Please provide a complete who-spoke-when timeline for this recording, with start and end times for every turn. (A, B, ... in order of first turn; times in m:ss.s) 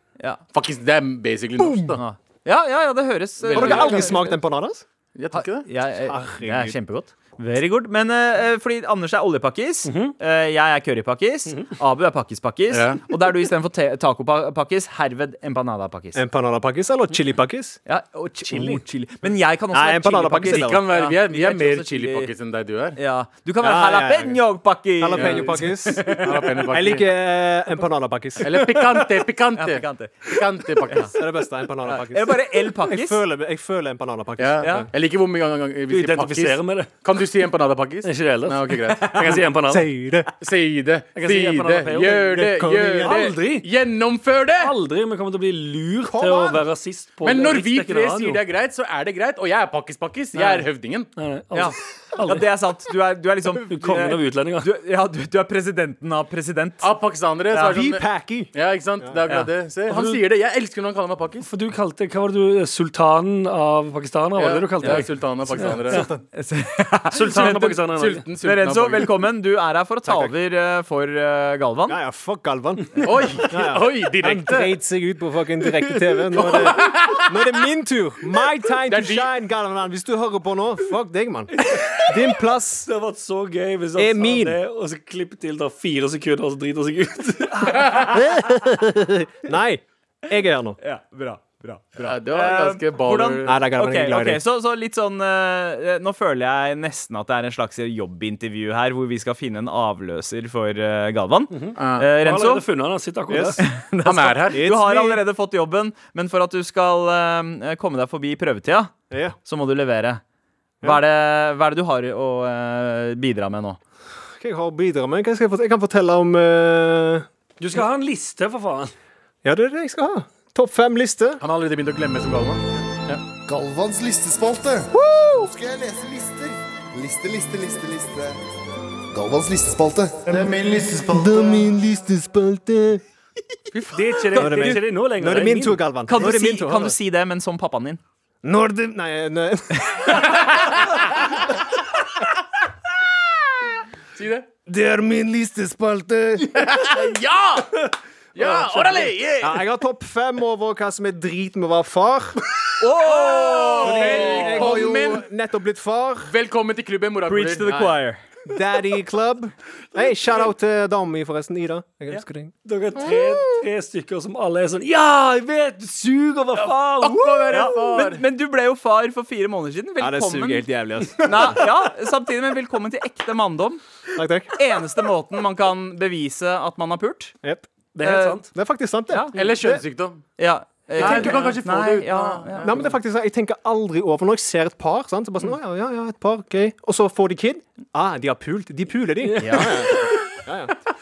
0:00.5-0:02.0 A
0:01.6-0:02.0 B
0:02.0-0:04.3 C
0:03.4-0:04.2 A
0:03.5-0:04.8 B
0:05.2-0:05.7 A
0:05.3-0:16.2 C
0:06.0-0:06.8 B
0:09.8-0:10.2 D
0:11.5-0:11.7 D
0:12.7-0:13.0 A
0:16.2-0:17.8 B
0:17.9-0:22.3 C
0:19.7-0:20.8 B
0:20.4-0:23.0 A
0:23.0-0:26.6 C
0:23.6-0:24.4 B
0:25.0-0:29.0 B
0:25.2-0:27.1 A
0:28.4-0:31.1 A
0:29.6-0:30.3 C
0:31.1-0:34.9 B
0:31.8-0:33.2 C
0:34.4-0:39.4 A
0:34.6-0:34.9 C
0:35.9-0:36.9 D
0:38.0-0:39.9 D
0:39.7-0:40.3 B
0:40.4-0:44.8 A
0:41.2-0:42.4 D
0:42.2-0:43.2 B
0:43.0-0:43.7 D
0:44.6-0:48.4 D
0:46.1-0:46.6 B
0:47.2-0:51.1 A
0:50.4-0:52.5 D
0:51.5-0:56.9 C
0:53.5-0:54.7 D
0:56.8-1:01.5 A
0:57.5-0:57.8 C
0:57.6-0:58.5 B
0:59.9-1:00.2 D
1:01.4-1:06.1 D
1:04.4-1:06.1 A
1:06.3-1:07.8 C
1:07.1-1:08.3 D
1:07.8-1:09.2 A
1:08.4-1:12.0 C
1:10.1-1:10.3 B
1:11.9-1:22.9 B
1:13.0-1:14.8 A
1:16.3-1:17.4 A
1:18.9-1:19.3 A
1:21.5-1:22.3 D
1:22.8-1:27.8 D
1:24.0-1:24.6 B
1:27.9-1:30.8 B
1:30.8-1:42.6 C
1:32.0-1:33.6 A
1:33.4-1:34.4 B
1:41.5-1:43.6 D
1:41.8-1:42.1 A
1:43.3-1:43.6 B
1:43.6-1:48.9 C
1:44.0-1:44.6 A
1:44.5-1:45.2 B
1:49.1-1:49.4 B
1:49.4-1:50.2 C
1:50.8-1:53.8 C
1:54.4-1:57.3 B
1:57.6-1:58.9 D
1:59.4-2:01.4 B
2:01.4-2:03.2 A
2:03.5-2:08.4 E
2:04.9-2:05.5 B
2:09.1-2:11.7 E
2:10.3-2:13.0 B
2:13.8-2:15.8 D
2:14.3-2:14.8 C
2:14.4-2:17.0 B
2:16.1-2:18.0 C
2:18.4-2:20.6 B
2:20.2-2:21.0 A
2:24.2-2:24.5 A
2:24.7-2:27.0 B
2:26.6-2:27.8 A
2:28.4-2:29.6 A
2:28.4-2:29.1 D
2:29.4-2:32.4 B
2:32.8-2:34.8 C
2:33.1-2:35.3 A
2:33.8-2:36.3 B
2:36.3-2:38.0 A
2:37.3-2:38.2 C
2:38.5-2:43.2 B
2:42.6-2:47.5 D
2:46.6-2:48.2 A
2:47.5-2:53.8 C
2:50.0-2:51.7 B
2:54.2-2:54.5 B
2:54.5-2:57.3 C
2:58.0-2:58.5 D
2:58.0-2:58.4 C
2:58.5-2:59.8 B
2:59.3-3:00.2 A
3:00.4-3:02.7 C
3:01.0-3:02.9 A
3:01.0-3:01.3 B
3:01.0-3:01.4 D
3:02.6-3:10.8 B
3:09.2-3:09.9 D
3:09.4-3:10.2 C